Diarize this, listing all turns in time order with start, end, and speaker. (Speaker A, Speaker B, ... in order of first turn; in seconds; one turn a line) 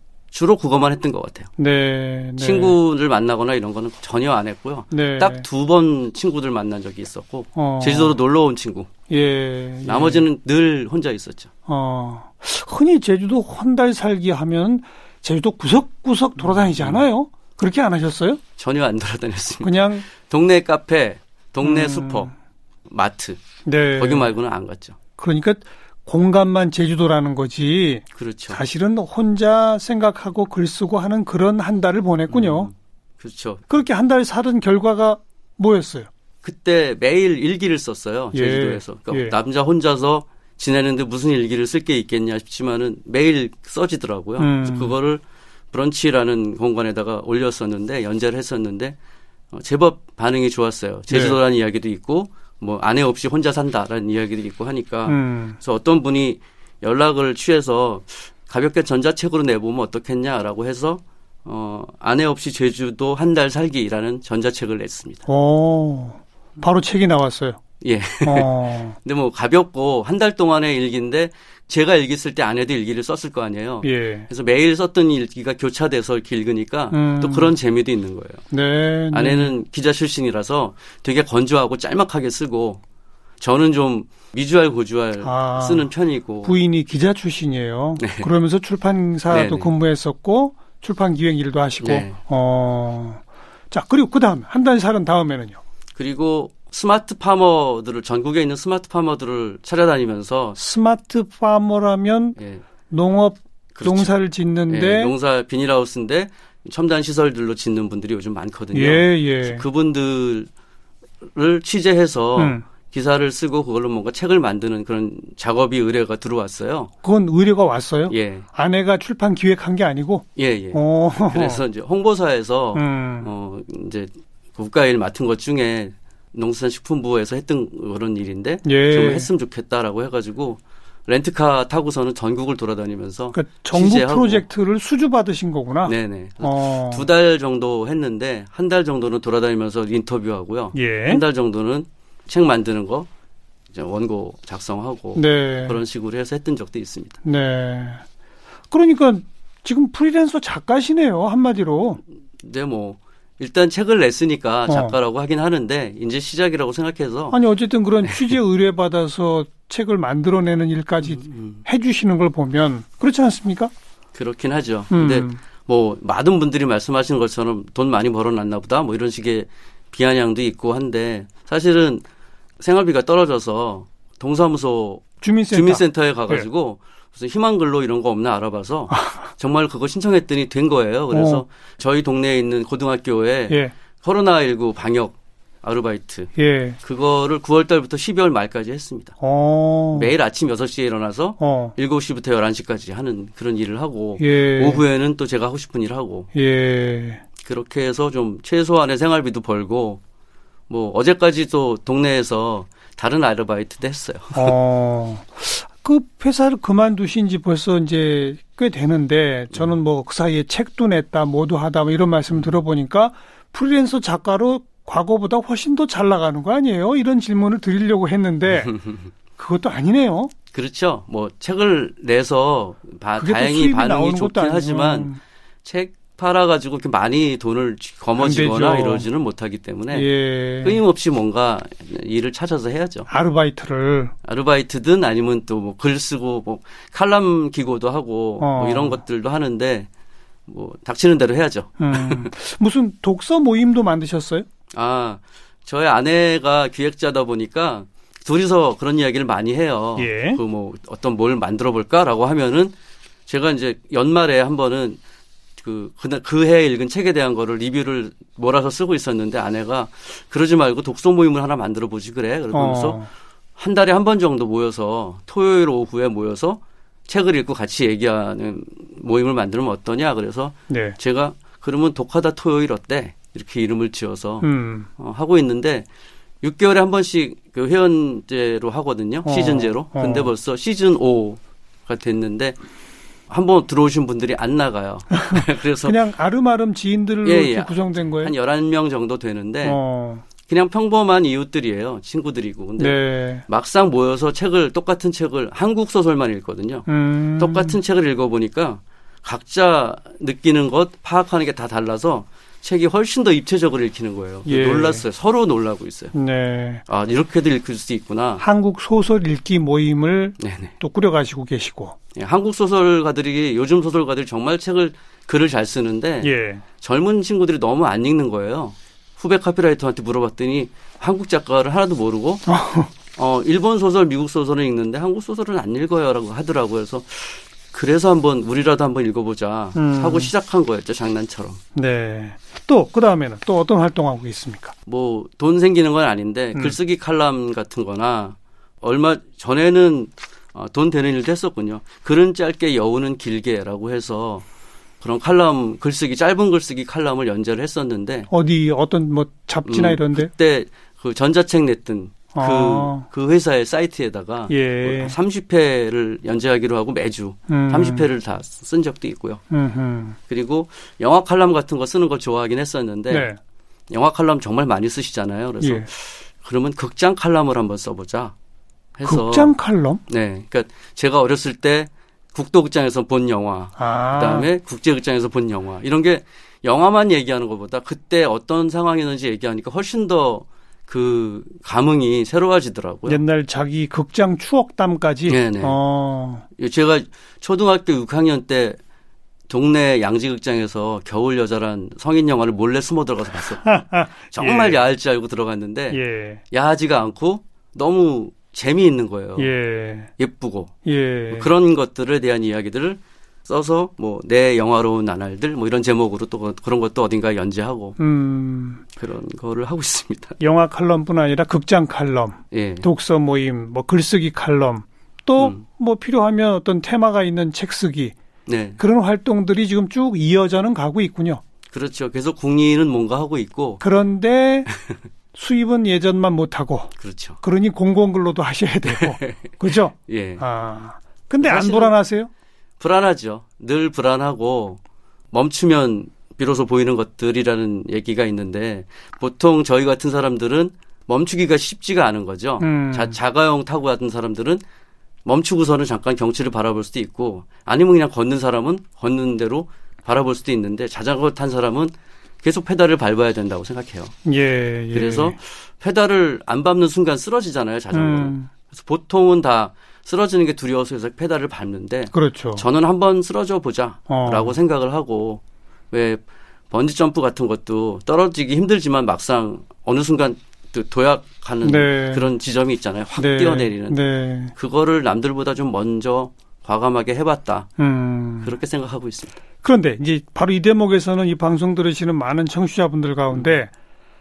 Speaker A: 0.3-1.5
Speaker B: 1.6-2.8
Speaker A: 2.4-8.9
Speaker B: 4.9-5.5
Speaker B: 7.6-8.1
Speaker B: 9.1-10.2
Speaker A: 9.8-11.5
Speaker B: 11.7-18.4
Speaker A: 16.4-17.0
Speaker A: 18.6-22.3
Speaker B: 19.6-20.1
Speaker B: 21.6-22.3
Speaker A: 22.9-23.4
Speaker B: 23.6-24.3
Speaker A: 24.0-25.0
Speaker B: 25.2-32.7
Speaker A: 28.1-28.6
Speaker A: 32.3-33.7
Speaker B: 33.7-36.1
Speaker A: 36.4-49.0
Speaker B: 38.3-39.4
Speaker B: 44.4-45.0
Speaker A: 49.5-65.2
Speaker B: 51.1-51.4
Speaker B: 55.1-55.6
Speaker B: 65.3-67.6
Speaker A: 67.8-78.4
Speaker B: 68.2-69.0
Speaker B: 73.8-74.3
Speaker B: 76.9-77.5
Speaker B: 78.5-79.5
Speaker A: 79.1-82.8
Speaker A: 83.4-86.5
Speaker B: 85.2-85.9
Speaker B: 86.4-95.6
Speaker A: 88.0-88.3
Speaker A: 89.3-89.7
Speaker A: 91.8-92.2
Speaker A: 96.0-100.6
Speaker B: 100.6-102.4
Speaker A: 102.4-102.6
Speaker B: 102.9-105.1
Speaker A: 103.8-104.1
Speaker A: 104.7-110.5
Speaker B: 108.7-109.6
Speaker A: 111.3-116.9
Speaker B: 112.4-112.7
Speaker B: 117.0-121.6
Speaker A: 118.1-118.5
Speaker A: 120.4-134.4
Speaker B: 122.8-123.3
Speaker B: 128.7-129.3
Speaker B: 133.3-137.1
Speaker A: 135.8-143.1
Speaker B: 140.8-141.2
Speaker A: 143.7-147.2
Speaker B: 145.2-145.8
Speaker B: 147.2-148.0
Speaker B: 148.7-152.0
Speaker A: 152.4-157.4
Speaker B: 154.7-155.0
Speaker B: 157.3-163.7
Speaker A: 161.0-161.6
Speaker A: 164.1-172.0
Speaker B: 164.9-165.4
Speaker A: 172.6-189.2
Speaker B: 175.2-176.4
Speaker B: 181.1-181.4
Speaker B: 186.4-186.8
Speaker B: 189.2-190.1
Speaker A: 189.9-196.3
Speaker B: 191.4-191.8
Speaker B: 194.2-194.8
Speaker B: 196.3-197.2
Speaker A: 197.4-200.0
Speaker A: 200.7-204.5
Speaker B: 204.3-218.8
Speaker A: 212.3-212.6
Speaker A: 218.6-219.1
Speaker B: 219.4-220.3
Speaker A: 220.5-225.1
Speaker B: 223.2-225.2
Speaker A: 225.6-230.1
Speaker B: 228.2-229.1
Speaker B: 229.9-230.8
Speaker A: 230.6-233.1
Speaker B: 233.1-234.1
Speaker A: 234.2-239.9
Speaker B: 238.4-239.0
Speaker A: 240.5-242.3
Speaker B: 241.8-244.5
Speaker A: 244.7-252.7
Speaker B: 250.0-250.4
Speaker A: 253.3-255.0
Speaker A: 255.6-263.0
Speaker B: 262.5-263.1
Speaker A: 263.6-275.9
Speaker B: 270.7-271.0
Speaker B: 274.4-274.9
Speaker A: 276.4-282.6
Speaker B: 279.2-280.3
Speaker A: 283.3-286.0
Speaker B: 285.3-288.3
Speaker A: 287.2-289.8
Speaker B: 289.6-290.2
Speaker A: 290.4-306.1
Speaker B: 292.8-293.4
Speaker B: 296.9-297.8
Speaker B: 304.5-305.0
Speaker B: 306.1-306.8
Speaker A: 306.9-308.4
Speaker B: 308.4-312.0
Speaker A: 310.4-310.7
Speaker A: 312.2-322.5
Speaker B: 316.2-316.6
Speaker B: 322.5-322.9
Speaker A: 323.2-331.6
Speaker B: 329.8-330.3
Speaker B: 331.8-334.8
Speaker A: 334.9-344.4
Speaker A: 345.0-348.3
Speaker B: 348.3-350.3
Speaker A: 349.6-359.4
Speaker B: 352.3-353.1
Speaker B: 354.5-355.2
Speaker B: 357.5-358.1
Speaker B: 359.5-360.2
Speaker A: 360.3-363.3
Speaker B: 363.1-363.4
Speaker A: 363.9-368.4
Speaker B: 365.6-365.9
Speaker A: 369.0-369.5
Speaker B: 369.1-370.0
Speaker A: 370.1-383.2
Speaker B: 373.8-374.5
Speaker B: 383.1-386.4
Speaker A: 385.3-385.8
Speaker A: 386.6-388.8
Speaker A: 389.5-399.5
Speaker B: 393.6-394.8
Speaker B: 395.9-396.4
Speaker B: 399.4-400.1
Speaker A: 400.2-400.7
Speaker B: 400.9-401.5
Speaker A: 401.3-408.0
Speaker B: 408.0-408.8
Speaker A: 409.0-410.4
Speaker B: 410.4-418.2
Speaker A: 412.5-412.9
Speaker A: 415.4-415.6
Speaker A: 418.5-418.8
Speaker B: 418.8-421.4
Speaker A: 421.7-423.8
Speaker B: 423.8-424.7
Speaker B: 425.3-432.3
Speaker A: 427.0-427.4
Speaker A: 428.9-429.5
Speaker A: 430.1-430.4
Speaker A: 431.4-431.9
Speaker A: 432.8-434.8
Speaker A: 435.3-444.6
Speaker B: 442.6-443.2
Speaker A: 445.2-454.1
Speaker B: 454.2-455.4
Speaker A: 454.9-474.0
Speaker B: 457.9-458.5
Speaker B: 462.1-462.7
Speaker B: 464.1-464.6
Speaker B: 471.6-472.3
Speaker B: 473.2-474.5
Speaker A: 474.6-477.7
Speaker B: 477.8-478.6
Speaker A: 478.4-479.4
Speaker B: 479.6-483.7